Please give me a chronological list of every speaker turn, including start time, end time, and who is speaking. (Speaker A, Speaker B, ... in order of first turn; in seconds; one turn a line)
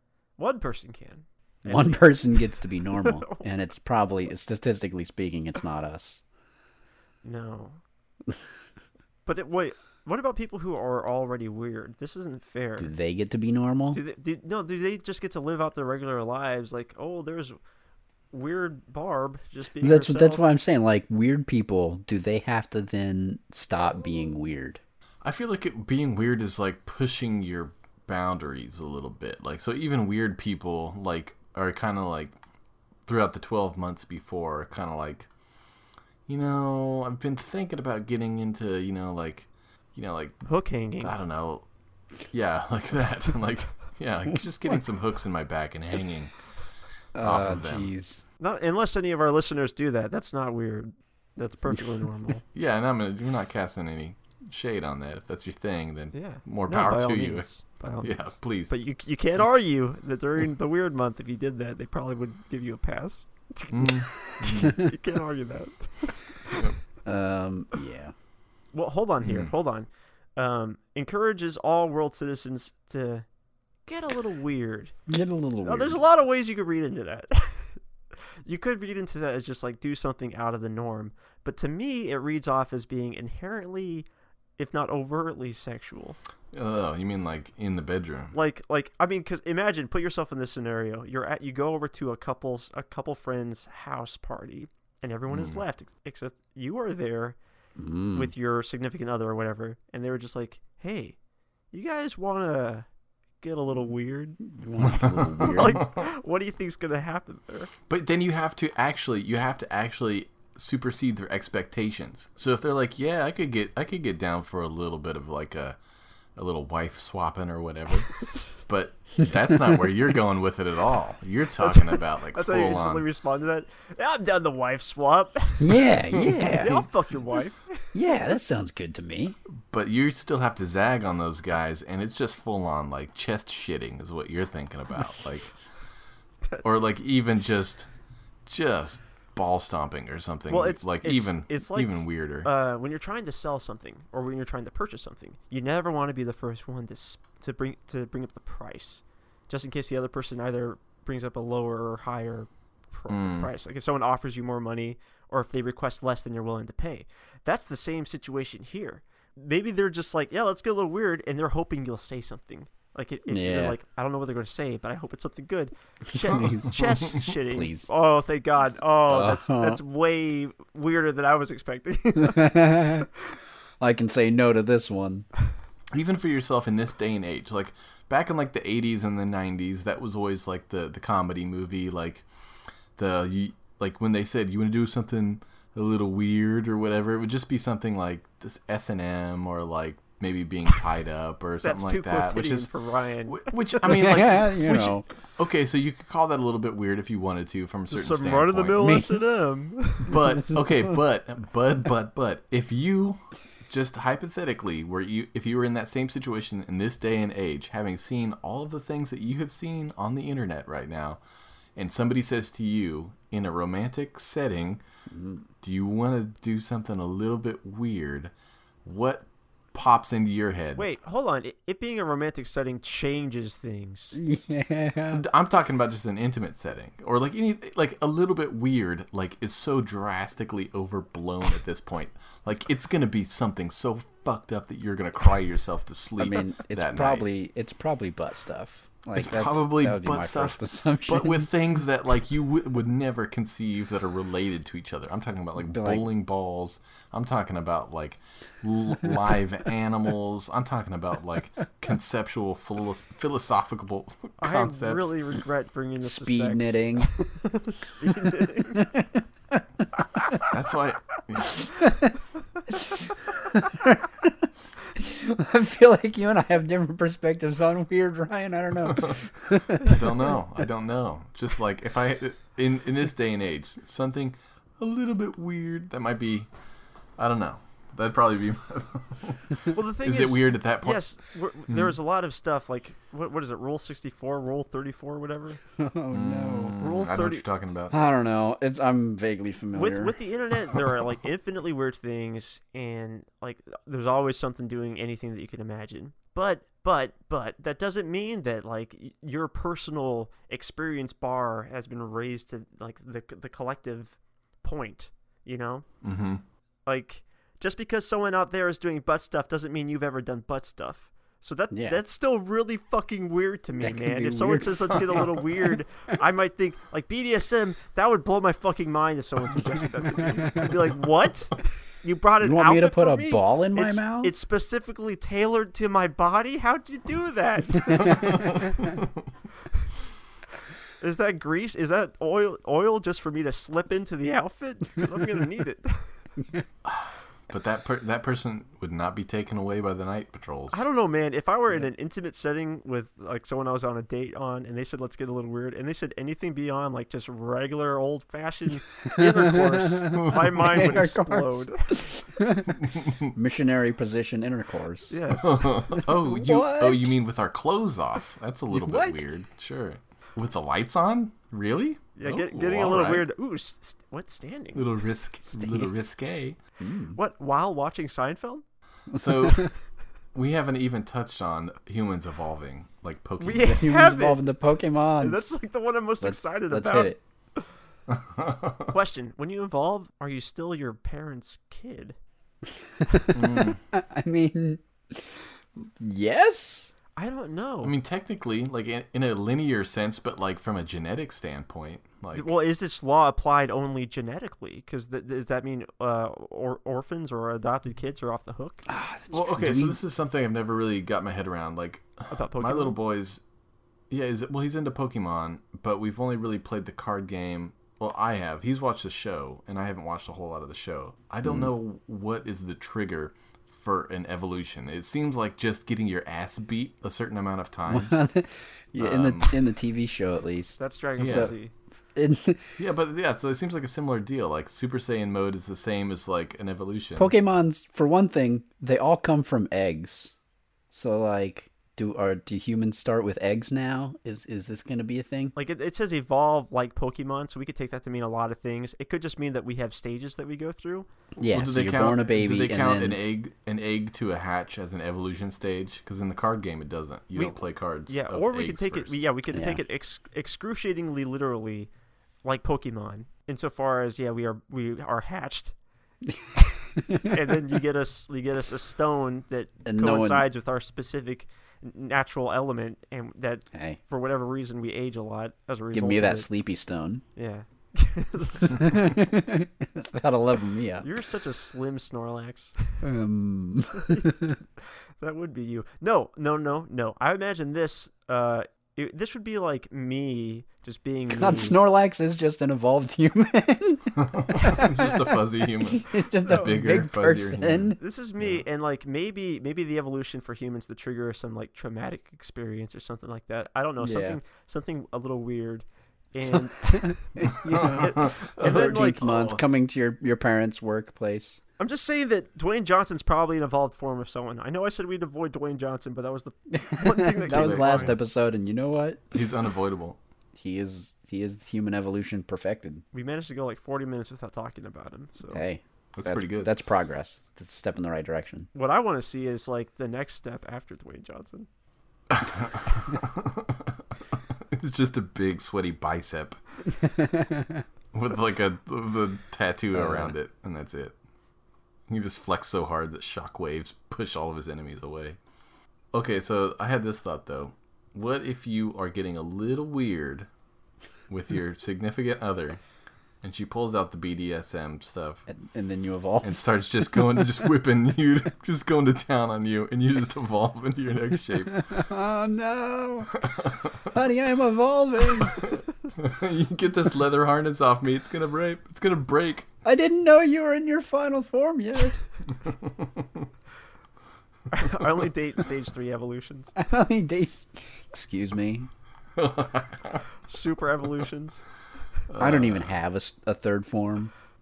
Speaker A: 0.4-3.5
Speaker B: 1.6-6.2
Speaker A: 7.2-7.8
Speaker A: 9.2-12.9
Speaker B: 12.8-14.0
Speaker A: 13.9-17.6
Speaker A: 18.3-20.5
Speaker B: 19.8-24.8
Speaker C: 25.2-32.3
Speaker C: 33.0-35.3
Speaker C: 36.3-40.4
Speaker A: 40.5-41.1
Speaker C: 41.0-41.6
Speaker C: 42.3-46.3
Speaker B: 47.1-48.2
Speaker C: 47.2-47.9
Speaker A: 48.4-52.4
Speaker C: 52.5-57.5
Speaker A: 56.1-66.7
Speaker C: 58.0-58.8
Speaker C: 63.7-64.9
Speaker C: 66.5-66.8
Speaker B: 67.0-68.1
Speaker A: 68.7-73.2
Speaker C: 69.2-69.5
Speaker A: 73.8-74.9
Speaker B: 75.1-76.0
Speaker A: 75.6-77.8
Speaker A: 78.4-84.0
Speaker A: 84.6-86.2
Speaker C: 86.5-88.3
Speaker A: 88.3-97.3
Speaker C: 95.3-95.6
Speaker B: 97.8-98.3
Speaker A: 98.1-101.2
Speaker A: 101.7-102.9
Speaker A: 103.4-104.4
Speaker B: 104.4-105.8
Speaker C: 104.8-106.0
Speaker A: 105.4-107.7
Speaker C: 107.9-115.8
Speaker C: 116.3-123.0
Speaker A: 121.6-125.9
Speaker B: 125.6-129.4
Speaker A: 126.5-127.8
Speaker C: 129.7-135.5
Speaker C: 136.6-137.9
Speaker C: 138.5-142.5
Speaker A: 140.5-173.0
Speaker C: 153.1-153.5
Speaker B: 163.3-163.8
Speaker B: 166.2-166.7
Speaker B: 167.5-167.9
Speaker B: 169.1-169.8
Speaker B: 172.2-173.1
Speaker B: 173.8-175.3
Speaker C: 175.9-182.2
Speaker C: 183.0-192.7
Speaker A: 191.6-193.5
Speaker C: 193.3-199.0
Speaker B: 193.8-195.0
Speaker A: 197.9-200.2
Speaker B: 198.8-199.2
Speaker C: 200.0-211.2
Speaker B: 200.4-200.9
Speaker C: 211.8-214.8
Speaker B: 215.1-215.4
Speaker C: 215.6-218.3
Speaker C: 218.8-220.8
Speaker A: 220.8-224.2
Speaker B: 224.1-225.2
Speaker C: 225.1-237.2
Speaker B: 236.2-241.5
Speaker C: 239.1-255.2
Speaker B: 245.6-246.1
Speaker A: 254.4-258.9
Speaker B: 256.0-257.1
Speaker B: 258.8-259.6
Speaker C: 260.4-261.9
Speaker B: 263.5-270.1
Speaker C: 269.7-276.5
Speaker C: 277.2-281.0
Speaker A: 279.7-285.6
Speaker C: 281.7-281.9
Speaker B: 285.8-286.8
Speaker C: 286.1-287.9
Speaker A: 286.8-287.4
Speaker B: 287.9-290.1
Speaker A: 289.7-305.9
Speaker C: 306.0-306.4
Speaker A: 306.9-328.7
Speaker B: 311.7-312.0
Speaker B: 313.8-315.4
Speaker B: 322.4-324.3
Speaker A: 331.0-336.1
Speaker C: 336.8-340.8
Speaker A: 340.7-352.1
Speaker B: 349.1-355.1
Speaker C: 352.8-353.3
Speaker A: 355.1-355.7
Speaker C: 355.4-363.3
Speaker B: 355.9-357.1
Speaker B: 358.7-359.2
Speaker A: 362.1-364.8
Speaker C: 364.7-366.6
Speaker B: 365.5-365.9
Speaker B: 366.8-367.2
Speaker A: 367.1-368.6
Speaker C: 369.1-369.7
Speaker B: 369.1-369.7
Speaker C: 370.3-373.9
Speaker A: 373.4-374.4
Speaker B: 373.6-375.5
Speaker A: 375.2-377.6
Speaker B: 376.2-377.2
Speaker C: 378.1-378.9
Speaker A: 378.9-382.1
Speaker B: 383.0-386.9
Speaker C: 383.3-383.8
Speaker A: 387.1-387.9
Speaker C: 387.8-392.5
Speaker A: 392.3-398.8
Speaker B: 398.9-400.0
Speaker C: 399.3-403.4
Speaker A: 402.3-403.0
Speaker C: 404.1-418.2
Speaker B: 411.4-411.7
Speaker B: 417.9-421.5
Speaker C: 419.0-419.6
Speaker A: 420.8-421.7
Speaker C: 421.2-421.5
Speaker B: 422.1-422.8
Speaker C: 422.8-427.3
Speaker B: 427.1-430.3
Speaker B: 430.9-435.5
Speaker A: 435.6-441.1
Speaker B: 441.4-443.2
Speaker C: 441.5-449.2
Speaker A: 447.3-451.9
Speaker B: 449.5-449.8
Speaker A: 452.4-455.7
Speaker A: 456.7-466.5
Speaker B: 459.8-460.5
Speaker B: 463.7-464.0
Speaker B: 465.9-467.2
Speaker A: 467.4-469.1
Speaker B: 468.7-471.1
Speaker A: 471.0-473.0
Speaker B: 473.0-474.6
Speaker A: 473.9-474.4
Speaker A: 475.2-481.8
Speaker B: 481.3-485.4
Speaker C: 484.1-488.6
Speaker B: 485.9-488.0
Speaker A: 488.0-499.3
Speaker B: 494.0-494.4
Speaker B: 497.0-501.6
Speaker C: 497.7-499.6
Speaker A: 501.8-508.2
Speaker B: 506.7-509.4
Speaker C: 507.4-508.2
Speaker C: 509.3-510.2
Speaker B: 510.5-513.0
Speaker A: 513.1-515.6
Speaker B: 515.5-518.7
Speaker C: 516.1-516.7
Speaker A: 518.7-521.7
Speaker C: 522.3-523.9
Speaker C: 524.7-526.6
Speaker B: 527.2-527.8
Speaker C: 528.1-531.1
Speaker B: 529.9-530.3
Speaker C: 532.1-535.4
Speaker C: 536.1-540.5
Speaker C: 541.3-542.8
Speaker C: 543.4-545.4
Speaker B: 545.5-546.6
Speaker C: 546.4-552.0
Speaker B: 547.1-547.4
Speaker B: 551.7-553.3
Speaker C: 553.4-554.0
Speaker B: 554.1-555.7
Speaker C: 556.1-559.7
Speaker B: 559.8-562.2
Speaker A: 564.7-566.7
Speaker B: 566.8-568.9
Speaker C: 569.4-570.2
Speaker A: 570.5-571.6
Speaker C: 572.3-572.9
Speaker B: 572.4-574.3